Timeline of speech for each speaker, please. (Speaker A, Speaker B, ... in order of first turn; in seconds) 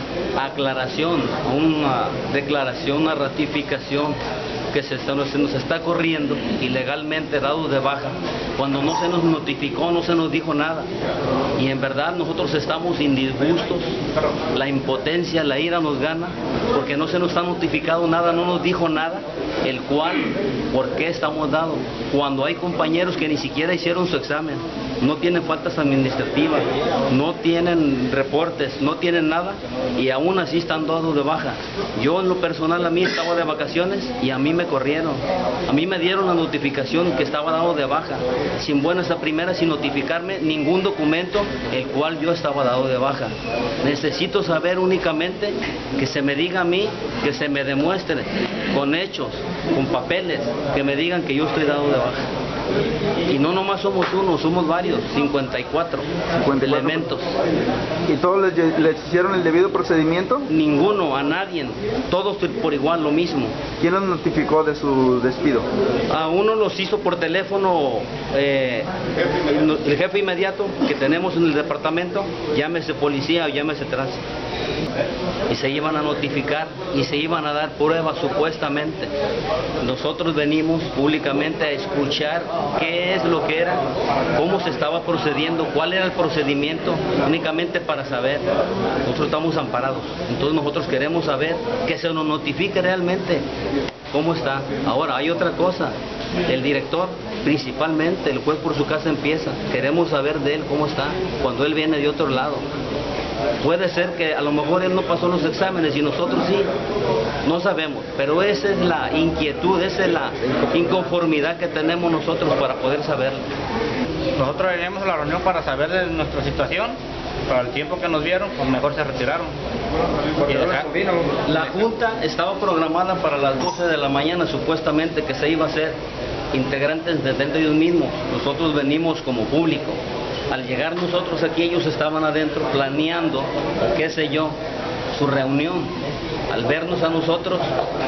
Speaker A: 0.3-4.2, 4.7-10.9, 11.6-14.0, 14.5-52.3, 53.3-56.1, 56.6-57.3, 60.5-63.6, 66.1-68.9, 69.5-74.2, 75.5-79.1, 79.8-83.8, 84.3-88.5, 89.0-93.5, 94.1-96.0, 96.5-102.7, 103.6-106.7, 107.4-113.4, 121.4-126.0, 126.5-134.6, 135.1-135.9, 136.5-137.7
Speaker B: 56.3-57.1, 58.1-60.5, 63.8-65.7
Speaker C: 114.3-119.6, 120.4-121.4